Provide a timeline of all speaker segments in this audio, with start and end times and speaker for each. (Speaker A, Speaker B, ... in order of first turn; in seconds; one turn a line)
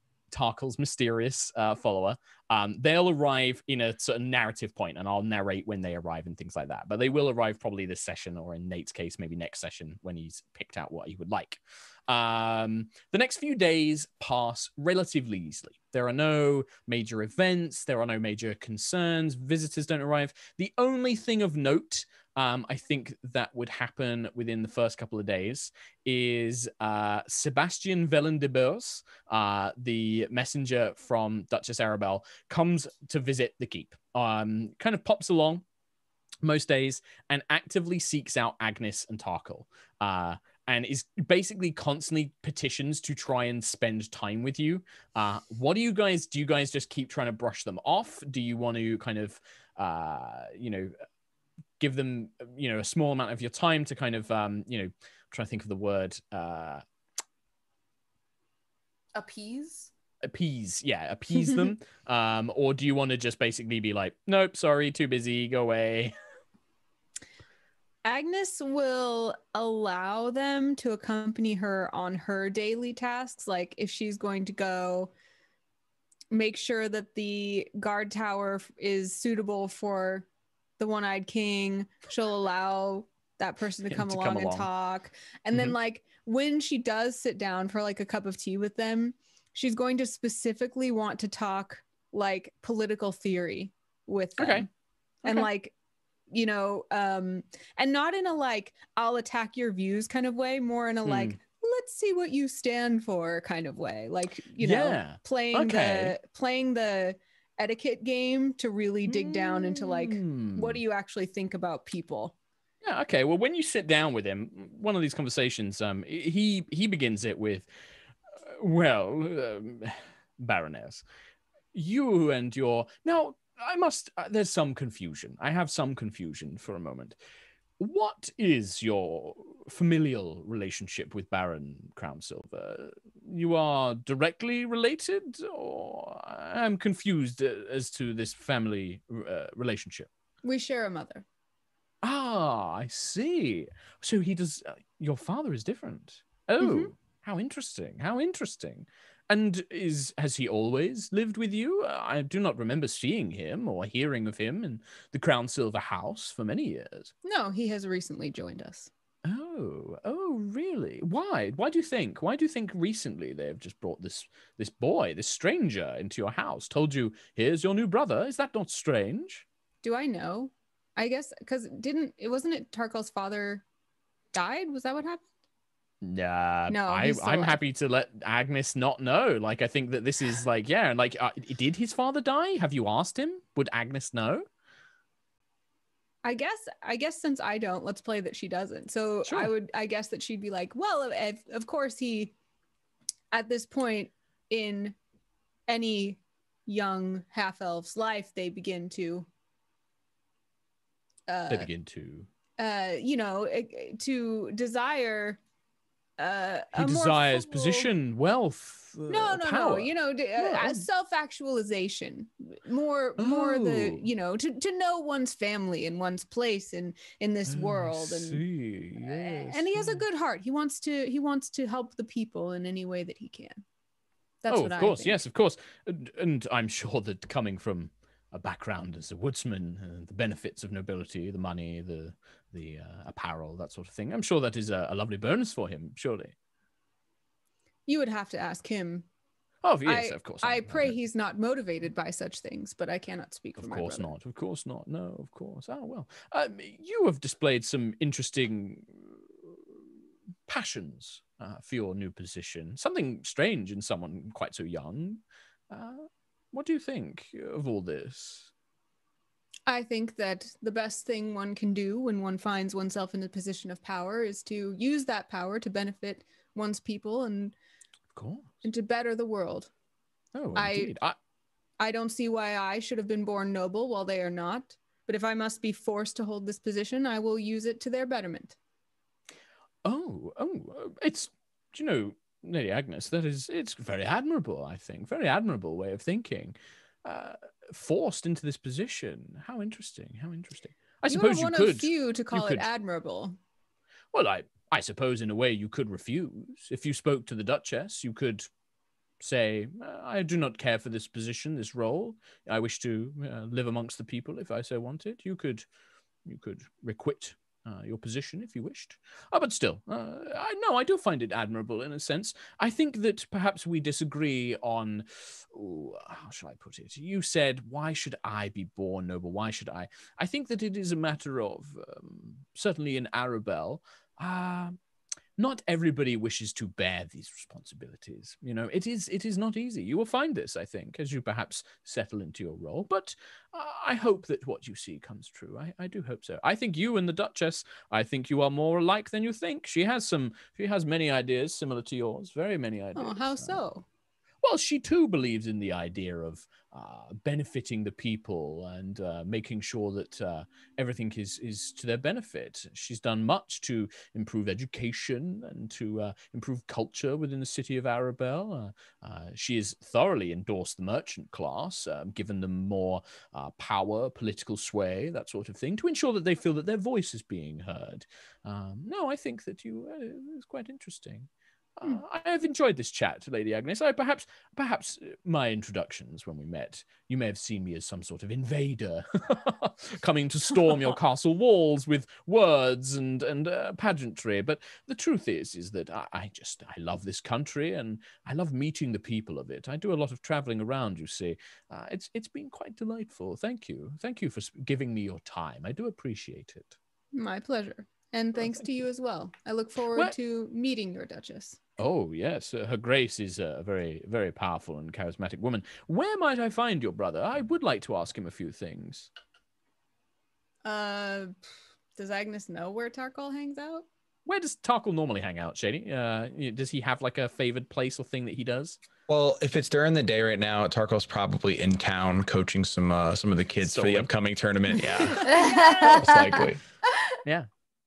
Speaker A: 0.3-35.6
Speaker A: 36.4-50.9
Speaker A: 51.8-56.8
Speaker B: 59.1-59.9
Speaker A: 60.2-66.1
Speaker C: 61.3-61.7
Speaker C: 68.0-75.1
Speaker C: 76.3-80.3
Speaker C: 80.8-94.7
Speaker A: 83.9-84.7
Speaker A: 94.4-94.7
Speaker C: 95.2-95.7
Speaker C: 96.3-112.3
Speaker A: 101.0-101.4
Speaker A: 104.6-106.1
Speaker A: 109.0-110.8
Speaker A: 112.8-117.7
Speaker A: 118.5-121.0
Speaker A: 121.7-127.2
Speaker A: 127.8-140.1
Speaker C: 140.4-141.2
Speaker A: 142.0-157.1
Speaker C: 146.6-146.9
Speaker C: 157.2-158.9
Speaker A: 159.2-169.4
Speaker C: 169.8-173.6
Speaker C: 174.3-175.2
Speaker A: 176.0-184.4
Speaker C: 176.7-177.6
Speaker C: 186.2-192.3
Speaker A: 189.2-189.5
Speaker C: 193.3-194.9
Speaker C: 195.7-199.3
Speaker C: 201.3-201.7
Speaker A: 201.5-202.3
Speaker C: 202.6-205.4
Speaker C: 206.2-207.9
Speaker A: 206.7-210.9
Speaker C: 209.1-218.4
Speaker A: 213.2-214.1
Speaker A: 217.4-220.0
Speaker C: 219.0-223.6
Speaker C: 224.4-225.2
Speaker A: 224.5-236.3
Speaker C: 237.9-239.1
Speaker A: 239.6-241.0
Speaker C: 239.8-244.1
Speaker A: 243.6-249.2
Speaker A: 250.5-258.5
Speaker C: 259.7-267.5
Speaker A: 268.1-268.5
Speaker C: 268.6-269.7
Speaker A: 270.3-271.1
Speaker C: 270.5-270.9
Speaker C: 271.8-278.6
Speaker A: 279.8-292.7
Speaker C: 291.1-293.4
Speaker A: 294.1-298.5
Speaker A: 299.2-305.6
Speaker A: 306.2-324.8
Speaker A: 325.4-343.6
Speaker C: 342.9-343.8
Speaker A: 344.4-396.8
Speaker C: 397.1-401.6
Speaker A: 401.8-409.1
Speaker C: 410.6-411.4
Speaker C: 411.9-413.9
Speaker A: 414.2-418.8
Speaker D: 419.1-426.6
Speaker A: 423.6-424.1
Speaker C: 425.0-426.1
Speaker B: 425.2-426.4